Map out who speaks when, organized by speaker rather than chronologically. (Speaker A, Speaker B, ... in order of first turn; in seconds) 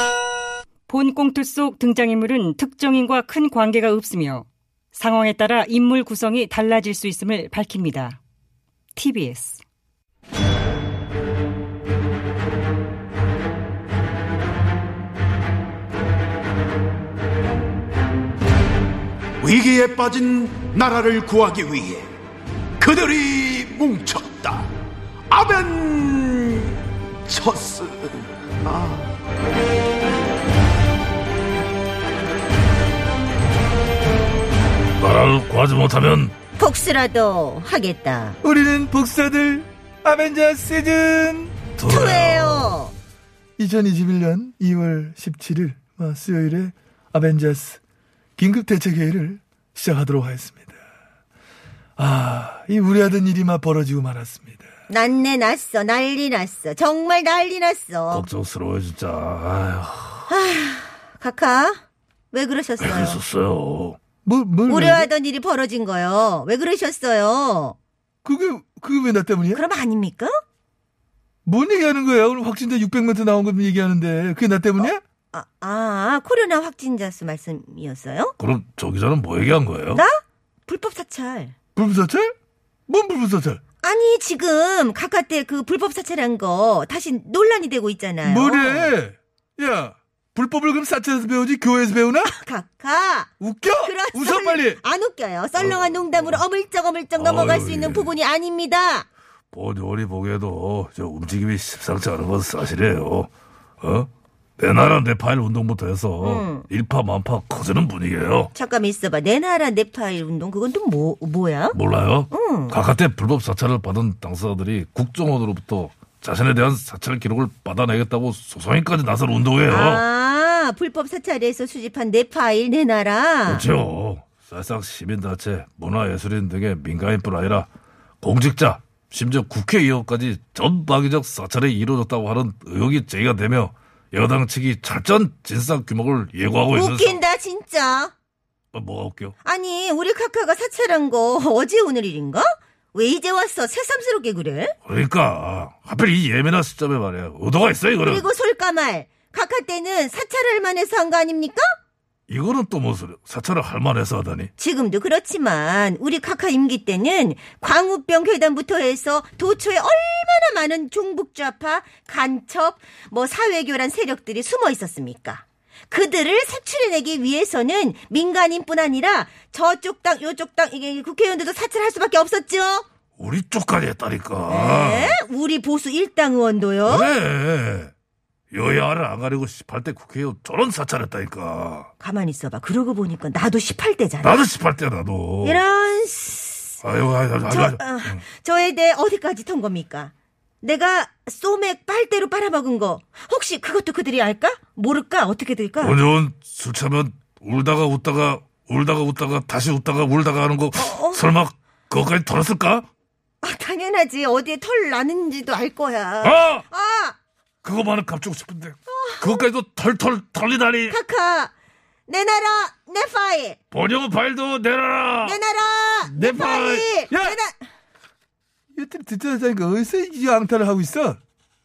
Speaker A: 0.9-8.2, 9.0-9.6
Speaker B: 19.4-22.1, 22.8-24.7, 25.3-29.1
Speaker C: 35.0-36.4, 41.8-42.8, 58.1-60.3, 62.8-64.0, 78.4-80.0, 95.6-96.4, 97.2-98.1, 99.5-108.5, 111.7-120.0, 123.5-127.7, 128.2-137.2, 138.7-139.4, 144.8-148.3, 152.3-154.5, 173.2-175.2, 176.8-177.9, 178.5-181.9, 184.2-185.6, 186.8-188.2, 195.8-202.9, 206.2-206.7, 207.6-211.0, 213.7-215.4, 216.1-216.9
Speaker D: 36.6-38.4, 41.9-42.9, 54.9-58.3, 60.3-61.8, 62.3-63.2, 64.7-67.8, 69.5-70.3, 74.8-78.3, 79.9-81.5, 83.8-89.0, 92.2-99.1, 106.2-106.7, 108.5-111.8, 112.3-112.8, 119.7-123.7, 136.7-138.1, 139.4-144.8, 148.0-151.7, 154.6-172.8, 174.5-177.1, 182.0-184.4, 185.4-186.8, 187.5-196.0, 200.8-201.2, 203.4-207.2, 208.9-209.4, 210.9-211.5, 212.1-213.6, 215.2-217.6
Speaker E: 38.4-41.6, 43.6-47.8, 48.4-50.8, 52.0-54.6, 64.2-65.1, 68.2-69.6, 71.5-75.0, 81.8-82.3, 82.9-83.6, 88.2-92.3, 93.4-94.8, 217.1-217.4, 218.8-221.2